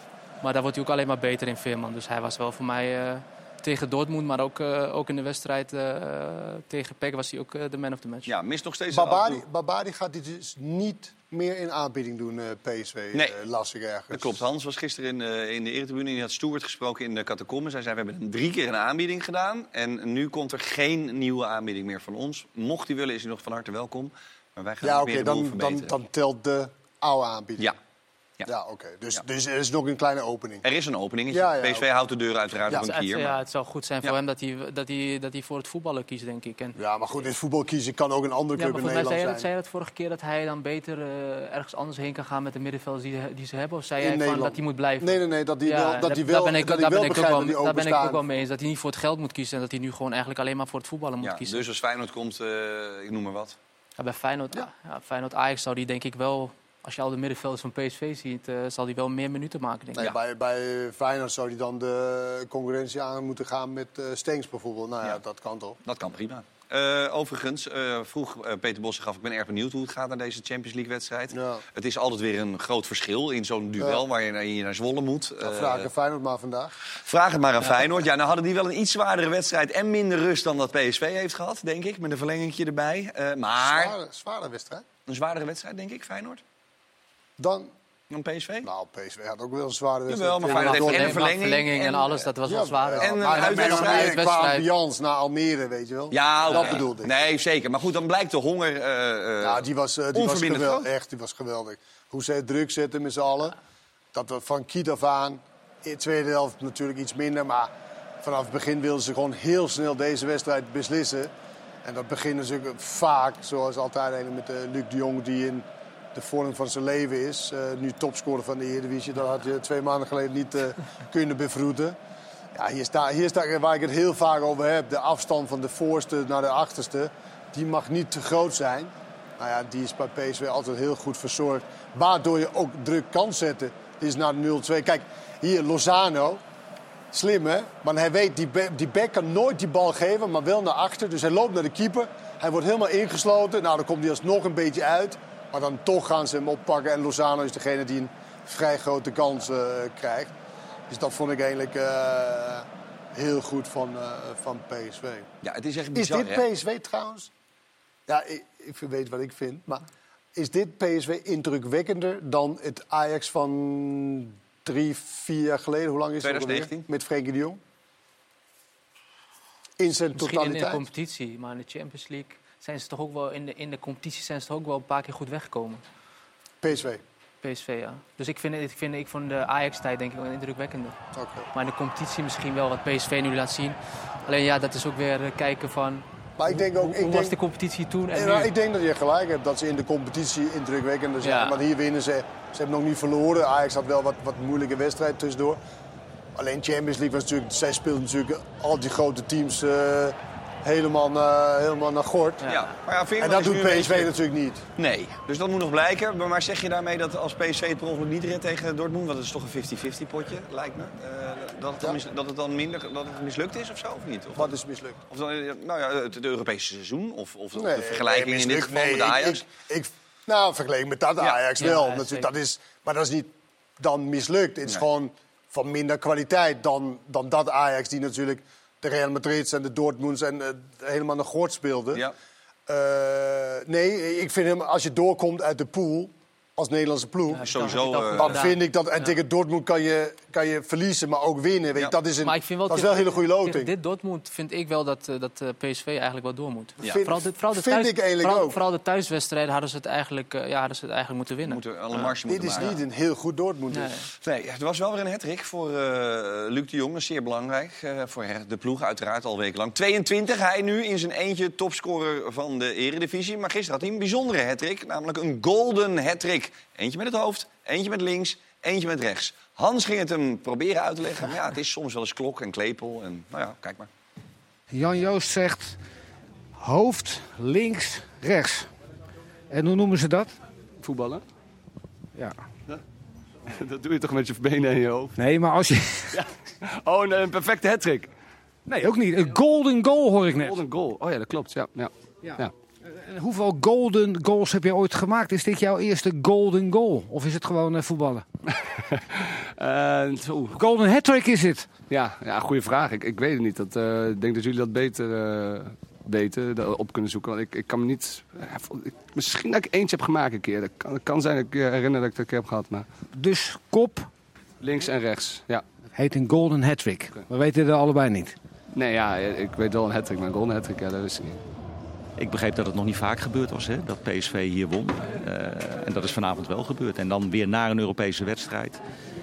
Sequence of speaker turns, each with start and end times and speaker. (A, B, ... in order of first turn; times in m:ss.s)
0:00.4-0:08.3 A
0:08.2-0:09.4 B
0:08.9-0:14.4 C
0:14.1-0:25.9 B
0:24.8-0:27.7 C
0:28.5-0:30.6 C
0:30.6-0:33.4 B
0:31.3-0:31.8 C
0:32.7-0:36.8 A
0:36.8-0:39.5 C
0:38.6-0:51.6 A
0:44.0-0:48.2 C
0:51.2-0:53.6 B
0:54.0-1:00.0 A
1:00.0-1:05.8 C
1:05.8-1:15.9 B
1:11.3-1:11.6 C
1:15.4-1:16.8 C
1:17.0-1:23.9 B
1:23.6-1:24.8 C
1:25.1-1:26.4 B
1:27.4-1:27.7 C
1:28.1-1:28.7 B
1:28.6-1:31.2 C
1:30.1-1:32.2 B
1:30.5-1:34.6 A
1:32.4-1:37.1 C
1:33.0-1:34.1 B
1:36.1-1:40.9 B
1:36.5-1:36.8 A
1:39.4-1:43.6 C
1:44.1-1:51.3 C
1:51.8-2:02.0 C
2:02.5-2:16.4 C
2:17.1-2:30.3 C
2:30.9-2:35.3 C
2:35.4-2:36.4 B
2:35.9-2:37.3 C
2:38.1-2:39.8 C
2:40.3-2:47.6 C
2:46.2-2:46.8 B
2:49.8-2:50.8 C
2:50.2-2:55.8 A
2:56.6-2:57.0 C
2:57.4-3:01.0 A
3:01.1-3:01.5 C
3:01.5-3:08.5 A
3:06.4-3:07.4 C
3:08.1-3:15.6 C
3:11.2-3:11.6 A
3:16.4-3:22.5 C
3:22.4-3:24.1 B
3:23.2-3:24.6 C
3:24.8-3:34.5 B
3:34.4-3:35.0 C
3:35.1-3:39.5 B
3:37.5-3:52.0 C
3:41.6-3:42.3 A
3:52.7-3:57.4 C
3:57.3-3:59.1 A
3:57.4-3:58.4 B
3:58.1-4:03.7 C
4:02.2-4:12.1 A
4:06.8-4:08.6 C
4:11.4-4:12.8 B
4:12.2-4:13.9 C
4:13.7-4:14.0 A
4:14.2-4:33.9 B
4:34.7-4:35.8 D
4:36.6-4:38.7 D
4:39.5-4:40.4 D
4:40.8-4:41.2 E
4:42.1-4:42.4 D
4:43.6-4:45.2 E
4:45.2-4:46.2 D
4:46.1-4:48.1 E
4:48.7-4:50.6 D
4:50.3-4:52.5 E
4:53.0-4:58.2 D
4:59.6-5:00.6 E
5:00.5-5:01.7 D
5:01.9-5:12.8 E
5:13.1-5:14.1 D
5:14.6-5:15.6 E
5:15.9-5:18.4 D
5:18.7-5:21.4 E
5:22.2-5:28.8 F